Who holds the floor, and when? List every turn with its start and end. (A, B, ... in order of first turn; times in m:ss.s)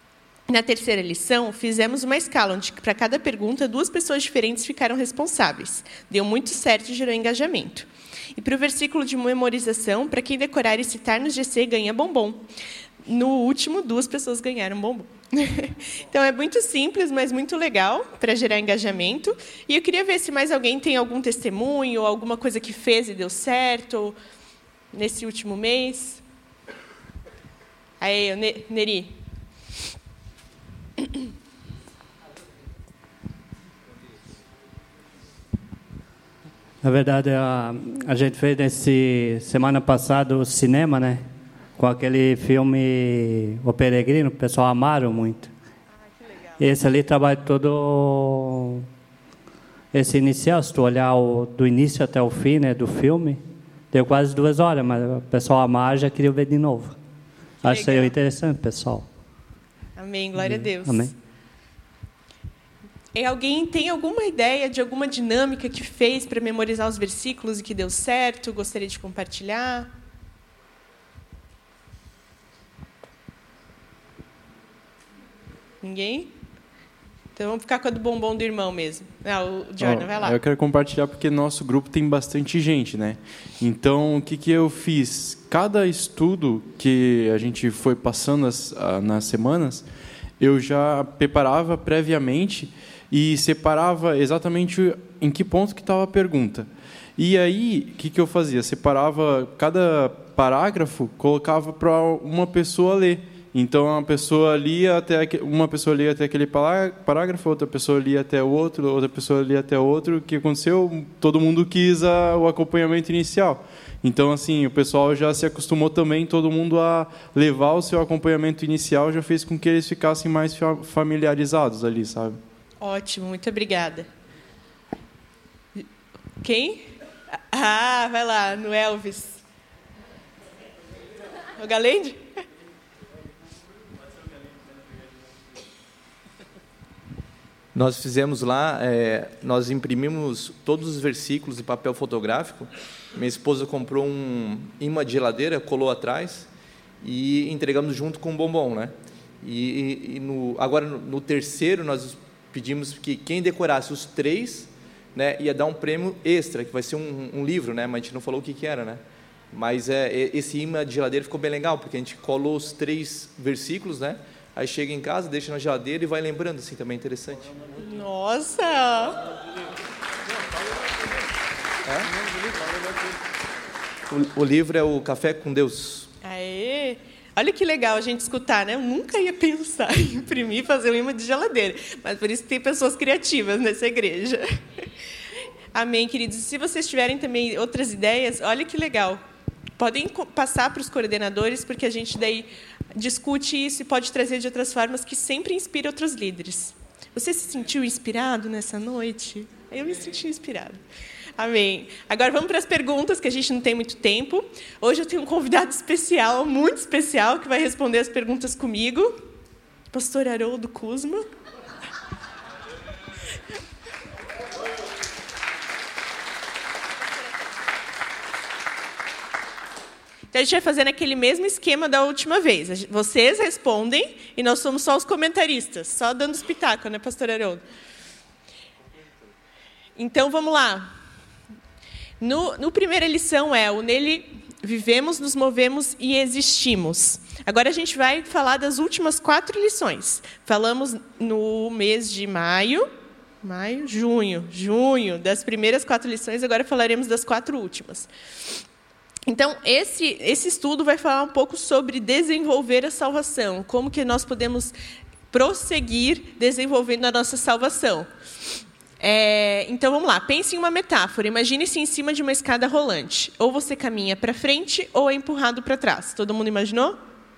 0:00.5-0:12.5 A
0:13.0-0:24.2 A
0:24.9-0:26.2 A
0:28.0-0:29.2 A
0:36.8-0:41.2 B
0:41.8-0:45.5 B
0:46.1-0:46.6 A
0:46.6-0:48.8 B
0:49.9-0:57.0 B
0:57.6-0:58.2 A
0:57.6-0:59.1 B
1:00.0-1:01.1 A
1:00.4-1:01.1 B
1:03.1-1:09.9 A
1:15.8-1:16.3 A
1:17.4-1:20.4 A
1:19.8-1:29.9 C
1:30.4-2:02.4 C
2:02.8-2:04.1 A
2:06.4-2:06.9 A
2:07.5-2:09.4 A
2:11.6-2:12.2 A
2:17.7-2:26.5 D
2:27.0-2:47.7 D
2:47.8-2:49.2 A
2:51.8-2:52.5 D
2:54.1-2:56.1 D
2:56.2-3:04.5 A
3:05.7-3:09.2 A
3:09.8-3:20.8 A
3:21.4-3:29.2 A
3:29.9-3:31.2 A
3:40.3-3:47.6 A
3:50.0-3:50.9 A
3:52.2-4:02.9 A
4:03.4-4:08.1 A
4:09.3-4:14.8 A
4:15.3-4:18.1 A
4:19.0-4:27.0 A